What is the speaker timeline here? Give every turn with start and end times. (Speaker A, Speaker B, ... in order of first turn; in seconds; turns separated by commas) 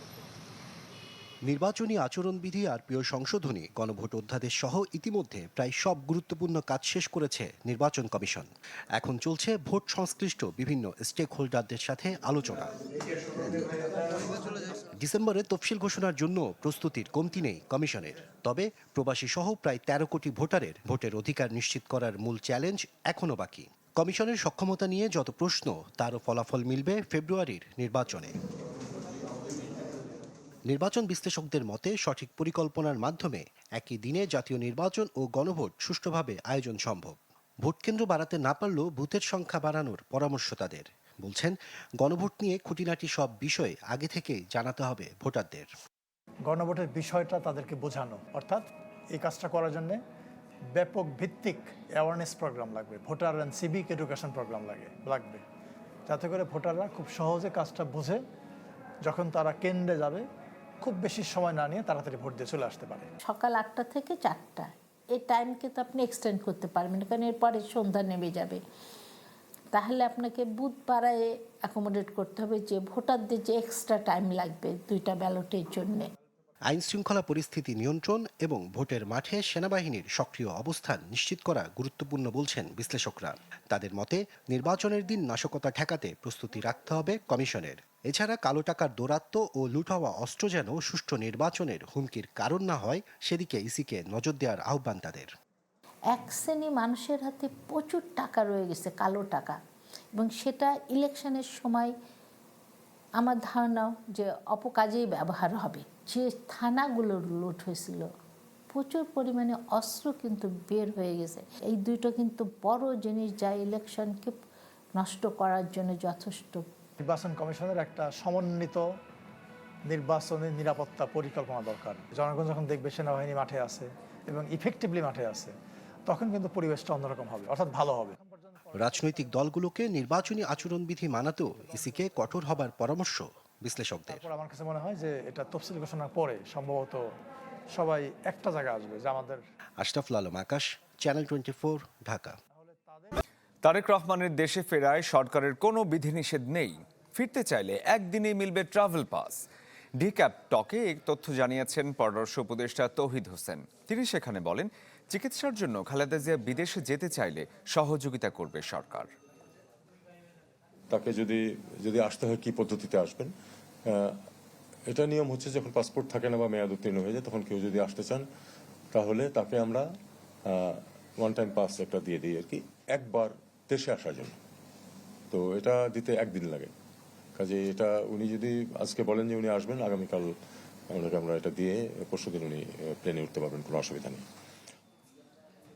Speaker A: 1.5-12.7, Speaker A: 13.4-14.2, Speaker A: 15.0-28.4, Speaker A: 30.7-45.7, Speaker B: 46.5-50.0, Speaker B: 50.7-55.4, Speaker B: 56.1-58.2, Speaker B: 59.1-60.2, Speaker B: 60.8-63.1, Speaker C: 63.3-68.6, Speaker C: 69.7-76.1, Speaker A: 76.7-95.3, Speaker C: 96.1-99.6, Speaker C: 100.2-101.9, Speaker C: 103.2-108.1, Speaker C: 108.7-114.3, Speaker C: 115.0-116.6, Speaker B: 117.0-118.9, Speaker B: 119.9-125.5, Speaker B: 126.0-129.2, Speaker A: 128.7-134.2, Speaker B: 134.1-137.0, Speaker B: 137.7-139.4, Speaker A: 139.8-142.4, Speaker B: 142.6-143.1, Speaker D: 143.6-149.4, Speaker D: 150.0-159.1, Speaker E: 160.9-163.3, Speaker E: 164.9-168.2, Speaker E: 168.9-169.9, Speaker E: 170.5-174.3, Speaker E: 175.3-176.7, Speaker E: 177.4-180.3, Speaker E: 180.9-184.2